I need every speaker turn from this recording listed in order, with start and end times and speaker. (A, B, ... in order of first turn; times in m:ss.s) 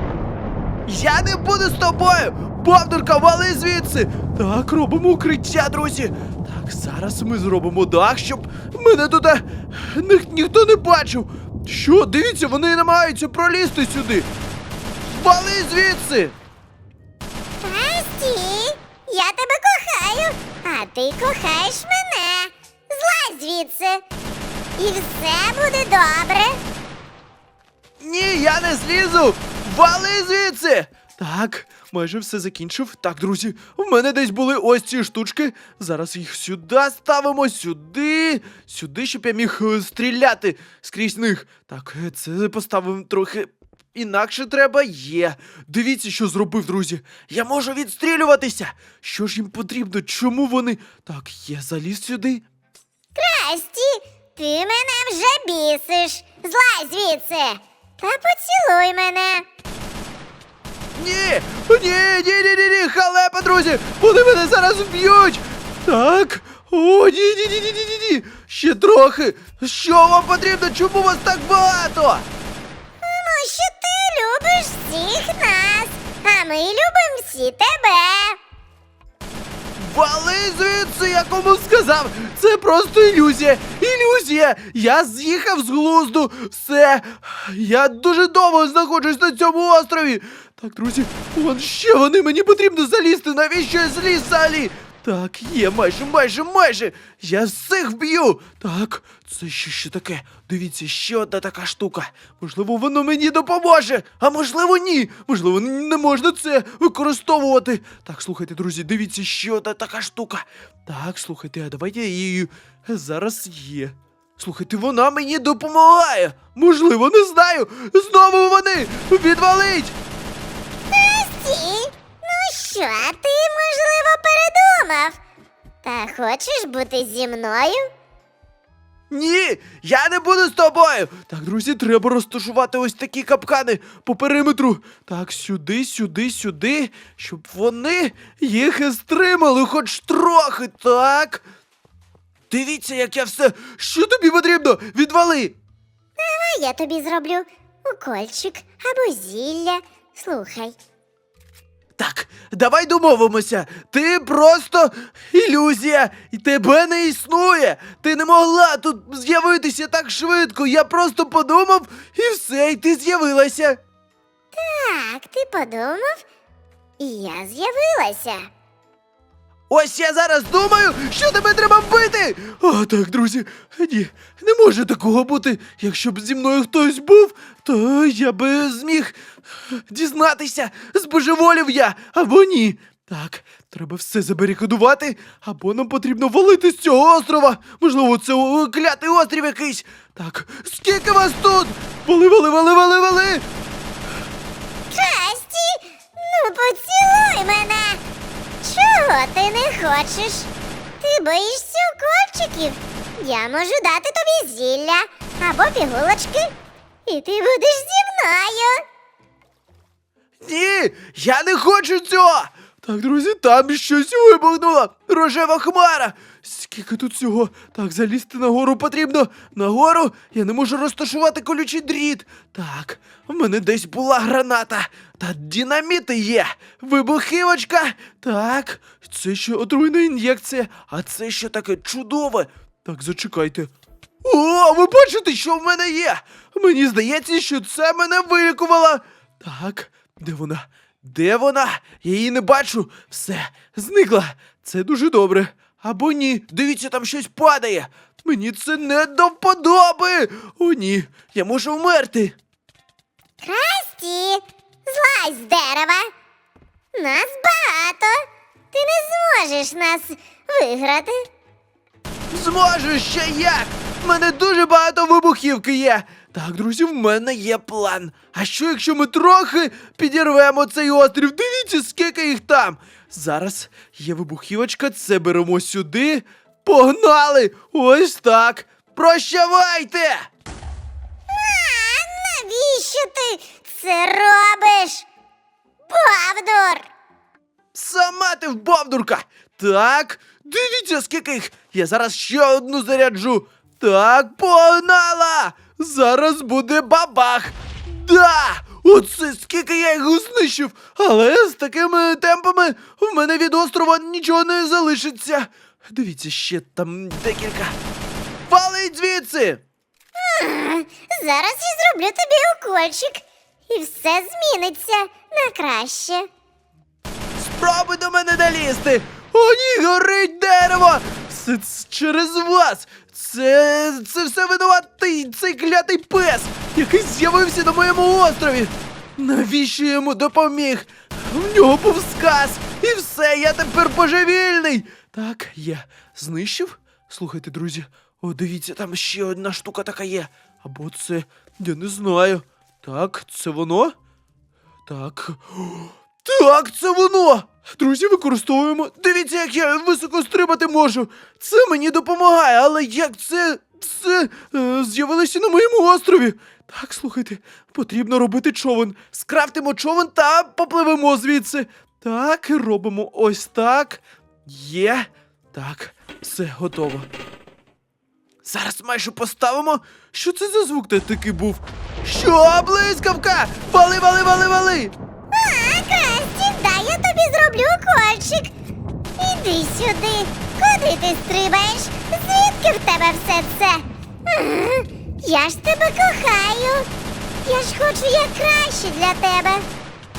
0:00.9-0:14.3 A
0:15.0-0:16.4 A
0:17.6-0:24.0 B
0:24.8-0:26.6 B
0:28.0-0:52.4 A
0:53.2-0:59.5 B
1:01.0-1:12.3 A
1:13.0-1:18.4 B
1:19.8-2:00.0 A
2:00.9-2:05.2 B
2:05.8-2:07.9 B
2:09.1-2:21.4 A
2:22.5-2:25.6 A
2:26.2-2:30.8 B
2:32.0-2:43.8 A
2:44.5-2:46.2 B
2:47.0-2:48.5 B
2:49.7-2:59.2 A
2:59.7-3:13.5 A
3:14.9-3:18.0 B
3:18.6-3:26.5 B
3:27.1-3:28.8 B
3:30.4-3:53.7 A
3:54.2-4:12.4 A
4:13.4-4:16.1 B
4:17.0-4:21.2 B
4:22.3-4:40.3 A
4:41.3-4:45.1 B
4:45.9-4:46.9 B
4:47.7-5:07.8 A
5:08.5-5:09.6 A
5:10.2-5:16.3 B
5:17.4-5:44.0 A
5:44.9-6:07.1 A
6:08.4-6:14.9 A
6:15.3-6:18.5 B
6:19.2-6:26.9 B
6:27.4-6:29.7 B